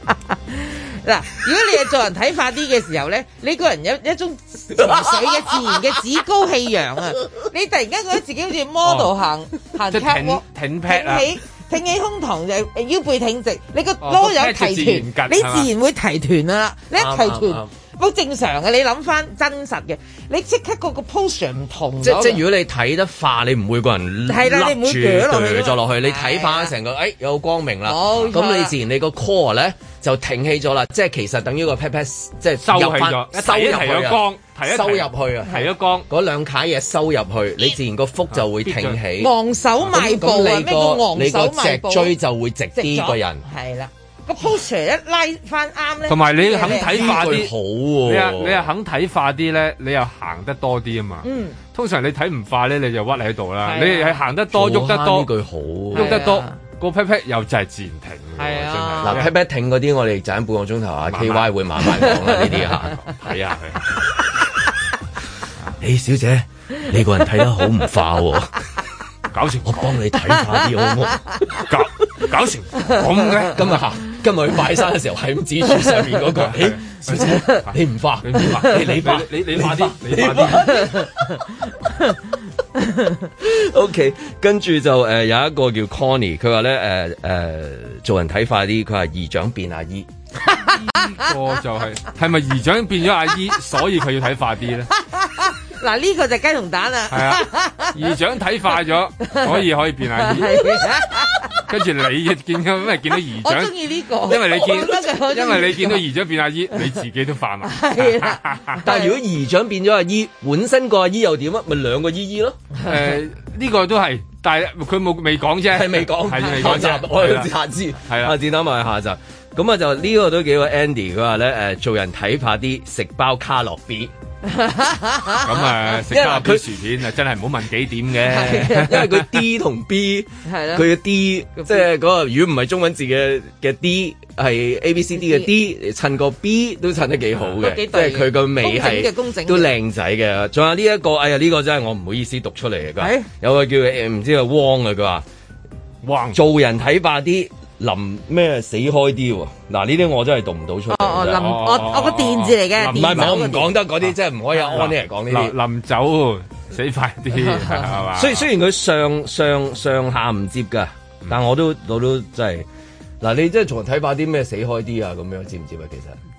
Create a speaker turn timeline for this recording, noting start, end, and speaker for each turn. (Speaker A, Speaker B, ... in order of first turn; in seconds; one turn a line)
Speaker A: 0.5-22.4
Speaker B: 4.8-5.8
Speaker C: 8.8-9.1
Speaker C: 9.7-11.3
Speaker C: 14.0-15.7
Speaker B: 16.9-17.7
Speaker B: 22.0-39.3
Speaker A: 24.3-26.7
Speaker A: 27.8-28.7
Speaker C: 32.6-36.0
Speaker C: 38.3-39.0
Speaker A: 39.2-42.1
Speaker B: 39.8-43.4
Speaker A: 42.7-47.3
Speaker C: 46.1-47.5
Speaker B: 46.6-48.7
Speaker C: 48.0-55.3
Speaker A: 51.2-51.6
Speaker A: 53.6-54.2
Speaker B: 54.5-56.2
Speaker C: 55.9-59.3
Speaker A: 55.9-56.6
Speaker A: 58.4-59.2
Speaker B: 59.0-63.0
Speaker C: 61.1-64.0
Speaker B: 65.8-68.6
Speaker C: 69.3-70.0
Speaker B: 69.6-71.3
Speaker C: 71.7-73.6
Speaker B: 73.5-81.4
Speaker C: 76.4-80.8
Speaker A: 77.3-77.6
Speaker A: 82.8-83.2
Speaker B: 83.4-90.1
Speaker A: 90.5-90.7
Speaker C: 90.6-94.9
Speaker A: 95.0-97.9
Speaker C: 97.1-100.9
Speaker A: 99.3-99.6
Speaker A: 100.2-101.6
Speaker C: 101.7-108.8
Speaker A: 103.4-106.0
Speaker A: 107.6-109.2
Speaker B: 108.8-112.6
Speaker C: 112.8-117.5
Speaker B: 115.7-124.1
Speaker C: 118.1-118.3
Speaker A: 124.4-125.7
Speaker C: 125.4-129.3
Speaker B: 126.0-126.7
Speaker A: 128.2-128.9
Speaker B: 128.2-145.2
Speaker A: 130.4-130.8
Speaker A: 131.5-131.9
Speaker A: 135.1-135.5
Speaker A: 137.6-139.7
Speaker A: 143.0-143.3
Speaker C: 146.0-146.4
Speaker B: 146.3-151.6
Speaker A: 150.9-153.7
Speaker C: 151.3-153.5
Speaker B: 152.9-155.5
Speaker C: 154.6-158.5
Speaker B: 158.1-162.7
Speaker B: 163.2-166.2